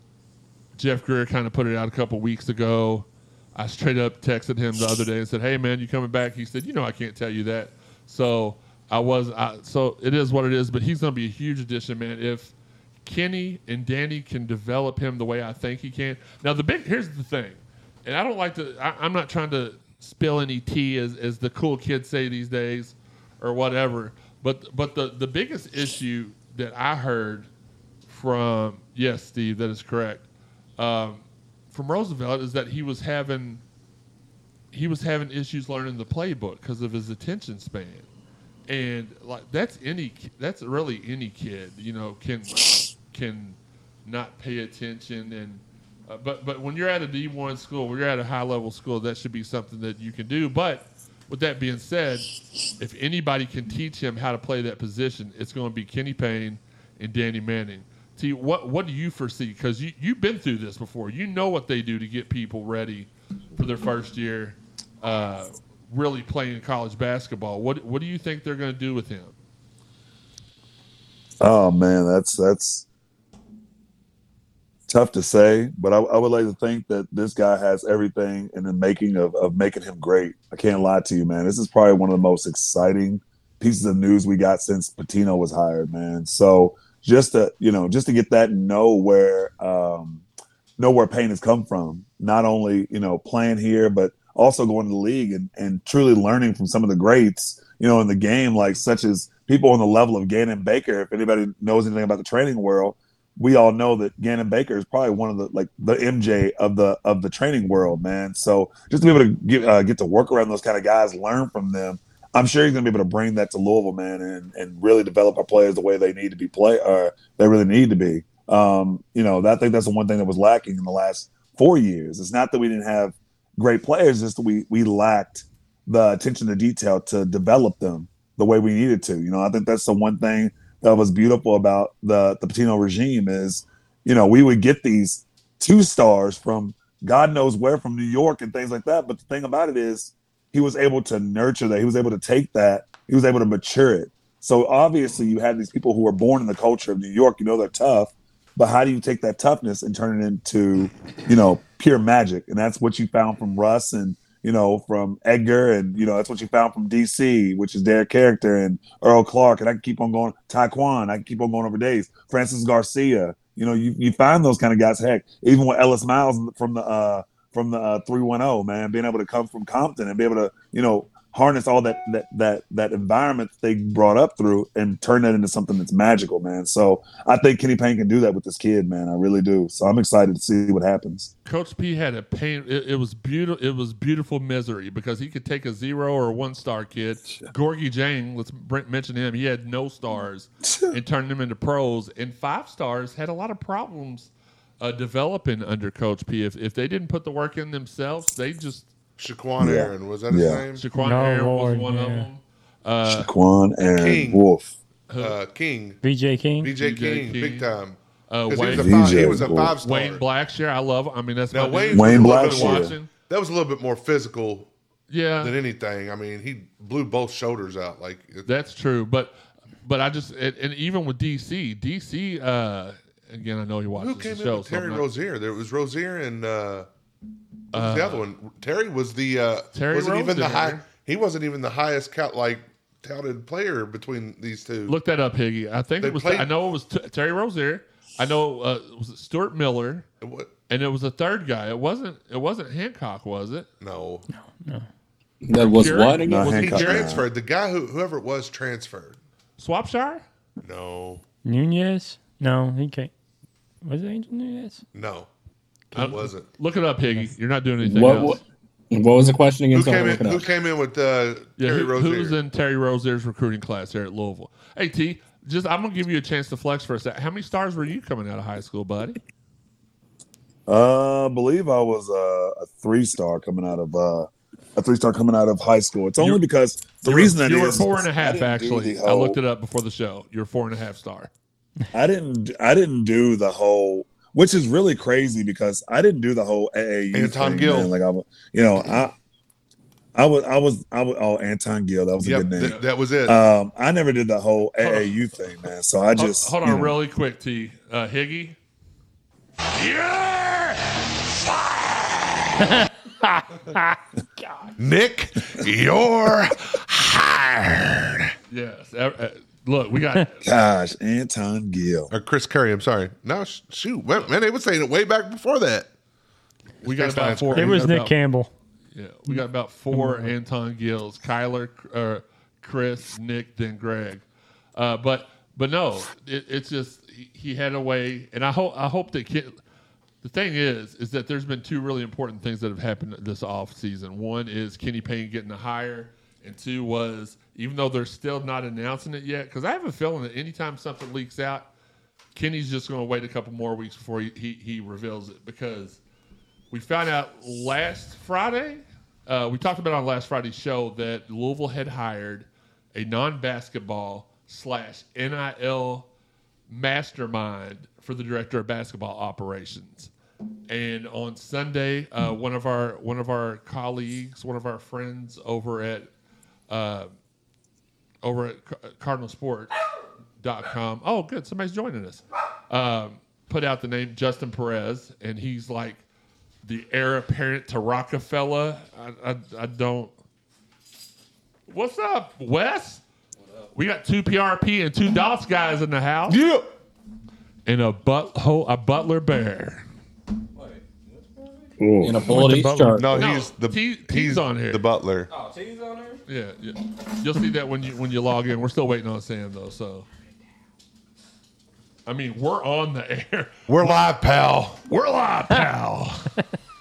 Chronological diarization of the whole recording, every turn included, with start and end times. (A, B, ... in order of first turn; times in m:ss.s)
0:00.8-0:27.5 A
0:28.1-0:30.2 A
0:30.8-0:33.6 A
0:34.7-0:38.1 A
0:38.7-1:09.4 A
1:11.4-1:12.9 B
1:14.9-1:30.2 B
1:30.8-3:01.3 B
3:01.4-3:18.9 A
3:10.6-3:11.0 B
3:19.2-3:20.8 C
3:19.6-3:20.6 B
3:20.8-3:23.3 A
3:21.0-3:22.3 D
3:23.0-3:24.7 B
3:23.9-3:24.4 C
3:25.1-3:25.4 A
3:25.2-3:26.0 C
3:26.0-3:26.7 D
3:26.6-3:28.0 C
3:26.8-3:27.7 A
3:28.3-3:33.1 A
3:28.5-3:30.2 C
3:28.7-3:29.8 B
3:31.5-3:34.7 C
3:31.9-3:32.9 B
3:35.1-3:35.5 A
3:35.4-3:38.5 C
3:38.4-3:45.0 A
3:44.0-3:46.9 C
3:47.7-3:48.2 A
3:47.7-3:55.0 C
3:49.7-3:50.8 A
3:54.9-4:00.1 A
3:56.0-3:56.5 C
4:00.2-4:00.5 C
4:00.7-4:03.7 A
4:03.8-4:04.3 C
4:04.4-4:04.8 D
4:05.4-4:06.9 E
4:05.6-4:07.1 A
4:06.2-4:07.3 B
4:06.5-4:09.2 C
4:09.6-4:10.2 A
4:10.6-4:11.2 C
4:11.5-4:13.1 D
4:13.8-4:14.8 D
4:14.9-4:15.3 C
4:15.9-4:16.5 C
4:16.0-4:18.4 A
4:17.8-4:18.4 E
4:18.9-4:20.5 E
4:19.7-4:22.4 C
4:21.6-4:29.2 A
4:30.7-4:39.4 B
4:37.0-4:41.3 A
4:41.9-4:49.1 B
4:47.1-4:47.9 C
4:50.2-4:57.0 B
4:52.2-4:53.4 C
4:54.8-4:55.1 A
4:56.2-4:58.6 A
4:59.7-5:01.1 A
5:02.6-5:04.7 D
5:04.8-5:08.3 C
5:08.5-5:10.3 A
5:10.4-5:12.1 B
5:12.1-5:15.9 C
5:16.8-5:17.9 C
5:16.8-5:18.2 A
5:17.5-5:18.5 D
5:18.9-5:24.2 A
5:19.9-5:20.3 D
5:24.8-5:29.6 A
5:30.2-5:41.7 A
5:42.4-5:46.0 A
5:46.7-5:56.1 A
5:56.7-6:00.1 A
6:00.7-6:06.1 A
6:06.7-6:07.1 A
6:08.2-6:09.7 A
6:10.4-6:16.0 A
6:16.6-6:20.1 A
6:21.7-6:23.0 A
6:23.7-6:26.4 A
6:26.3-6:26.6 C
6:27.7-6:29.8 A
6:31.8-6:32.3 B
6:32.0-6:33.3 E
6:32.3-6:34.8 A
6:33.0-6:35.3 C
6:36.3-6:40.1 A
6:42.1-6:43.9 A
6:43.7-6:44.8 C
6:44.9-6:46.4 A